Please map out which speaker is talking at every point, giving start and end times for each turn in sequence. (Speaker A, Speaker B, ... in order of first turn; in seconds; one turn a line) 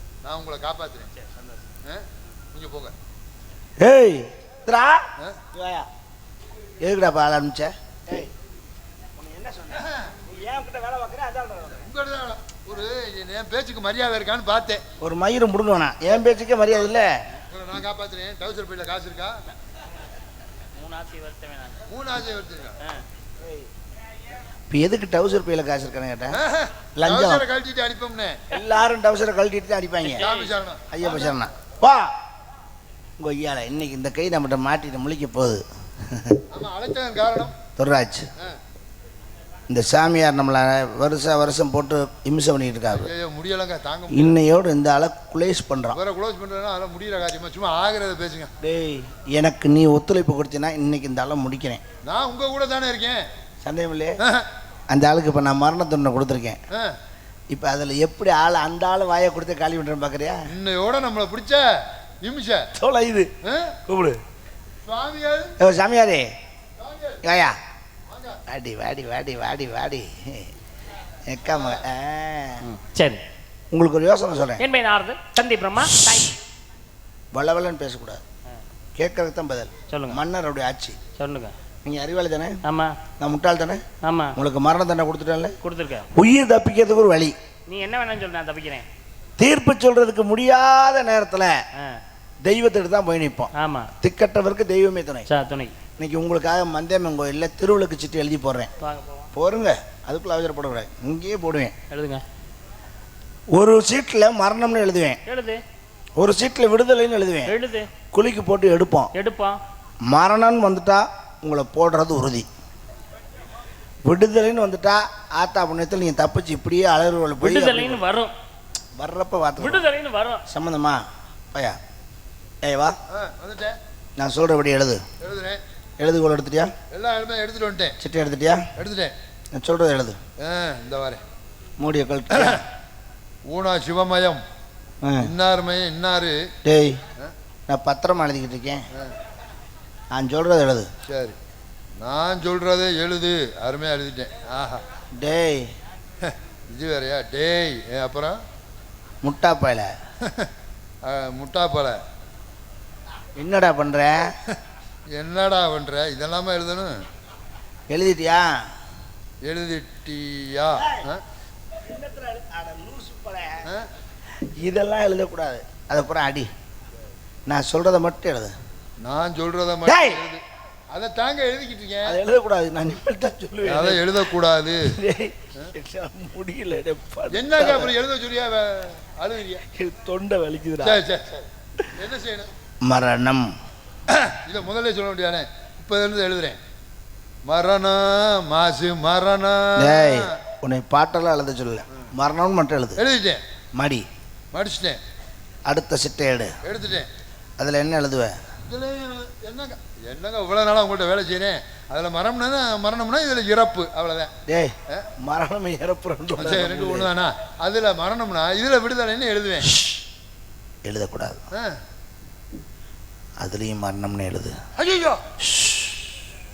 Speaker A: 0.2-1.1
Speaker B: 1.1-1.6
Speaker A: 1.8-2.9
Speaker C: 3.8-5.9
Speaker C: 6.8-8.3
Speaker C: 9.1-11.8
Speaker A: 9.7-10.1
Speaker A: 11.8-14.8
Speaker C: 15.0-17.1
Speaker A: 17.3-19.4
Speaker B: 20.7-21.8
Speaker A: 21.9-22.8
Speaker C: 23.4-23.7
Speaker C: 24.7-26.4
Speaker A: 26.3-28.4
Speaker C: 26.9-27.4
Speaker C: 28.5-30.2
Speaker B: 30.0-30.5
Speaker A: 30.2-31.5
Speaker C: 30.9-32.1
Speaker C: 33.2-36.4
Speaker A: 36.5-37.6
Speaker C: 37.8-38.3
Speaker C: 39.7-43.1
Speaker A: 43.0-44.4
Speaker C: 44.1-46.0
Speaker A: 45.9-48.5
Speaker C: 48.6-51.8
Speaker A: 52.0-53.2
Speaker C: 53.6-54.2
Speaker C: 54.9-56.6
Speaker A: 56.7-57.0
Speaker C: 57.5-60.5
Speaker A: 60.5-62.7
Speaker C: 62.8-63.3
Speaker A: 63.4-63.8
Speaker C: 63.9-64.2
Speaker A: 64.8-65.5
Speaker C: 65.6-66.3
Speaker A: 66.8-67.2
Speaker C: 67.2-67.6
Speaker A: 68.1-68.4
Speaker C: 68.5-70.5
Speaker C: 71.2-72.6
Speaker A: 71.5-71.8
Speaker B: 72.6-73.2
Speaker C: 73.7-74.6
Speaker B: 74.6-76.4
Speaker C: 77.3-78.2
Speaker C: 79.0-81.0
Speaker B: 79.9-80.2
Speaker B: 81.2-81.5
Speaker C: 81.8-82.6
Speaker B: 82.6-82.9
Speaker C: 83.2-83.8
Speaker B: 84.0-84.4
Speaker C: 84.4-85.5
Speaker B: 85.6-86.1
Speaker C: 86.1-87.3
Speaker B: 87.7-88.8
Speaker C: 89.4-91.6
Speaker C: 92.4-93.5
Speaker B: 93.5-93.9
Speaker C: 94.0-95.3
Speaker B: 95.3-95.7
Speaker C: 96.0-98.7
Speaker B: 98.8-99.3
Speaker C: 99.3-101.7
Speaker B: 101.9-102.2
Speaker C: 103.5-105.2
Speaker B: 105.2-105.6
Speaker C: 106.2-107.5
Speaker B: 107.5-107.9
Speaker C: 108.1-109.1
Speaker B: 109.1-109.6
Speaker C: 110.1-112.5
Speaker C: 114.0-118.0
Speaker B: 117.4-118.3
Speaker C: 119.0-119.8
Speaker B: 119.6-120.4
Speaker C: 120.5-121.8
Speaker C: 122.6-123.0
Speaker A: 123.1-123.8
Speaker C: 124.2-125.0
Speaker A: 125.2-125.6
Speaker C: 126.0-126.7
Speaker A: 126.9-128.0
Speaker C: 128.0-128.7
Speaker A: 128.8-129.1
Speaker C: 129.5-130.2
Speaker A: 130.4-131.2
Speaker C: 131.8-132.6
Speaker A: 132.3-132.6
Speaker A: 133.5-134.4
Speaker C: 135.0-135.3
Speaker A: 135.2-136.4
Speaker C: 136.6-137.0
Speaker C: 137.7-138.8
Speaker C: 140.1-140.9
Speaker A: 141.1-141.3
Speaker A: 142.0-144.8
Speaker C: 145.2-145.7
Speaker A: 146.2-148.4
Speaker C: 149.2-149.9
Speaker A: 150.2-150.5
Speaker A: 151.0-152.0
Speaker C: 153.4-154.3
Speaker A: 155.1-157.0
Speaker C: 157.9-158.6
Speaker A: 159.4-161.2
Speaker C: 160.8-161.1
Speaker C: 161.7-163.7
Speaker C: 164.6-166.5
Speaker C: 167.5-168.5
Speaker A: 169.0-172.2
Speaker C: 169.8-170.2
Speaker C: 172.0-174.1
Speaker A: 173.6-174.9
Speaker C: 174.8-177.9
Speaker A: 177.3-179.6
Speaker C: 179.7-181.0
Speaker A: 180.8-182.5
Speaker C: 182.8-183.5
Speaker A: 184.1-186.6
Speaker A: 187.5-190.3
Speaker C: 189.8-193.0
Speaker A: 193.0-193.4
Speaker C: 193.8-194.1
Speaker A: 194.5-195.0
Speaker C: 195.7-196.5
Speaker A: 196.6-197.1
Speaker C: 197.6-198.4
Speaker A: 198.7-204.3
Speaker C: 204.4-207.1
Speaker A: 206.4-209.7
Speaker C: 210.8-211.4
Speaker C: 213.4-214.6
Speaker A: 214.8-215.2
Speaker C: 215.4-216.1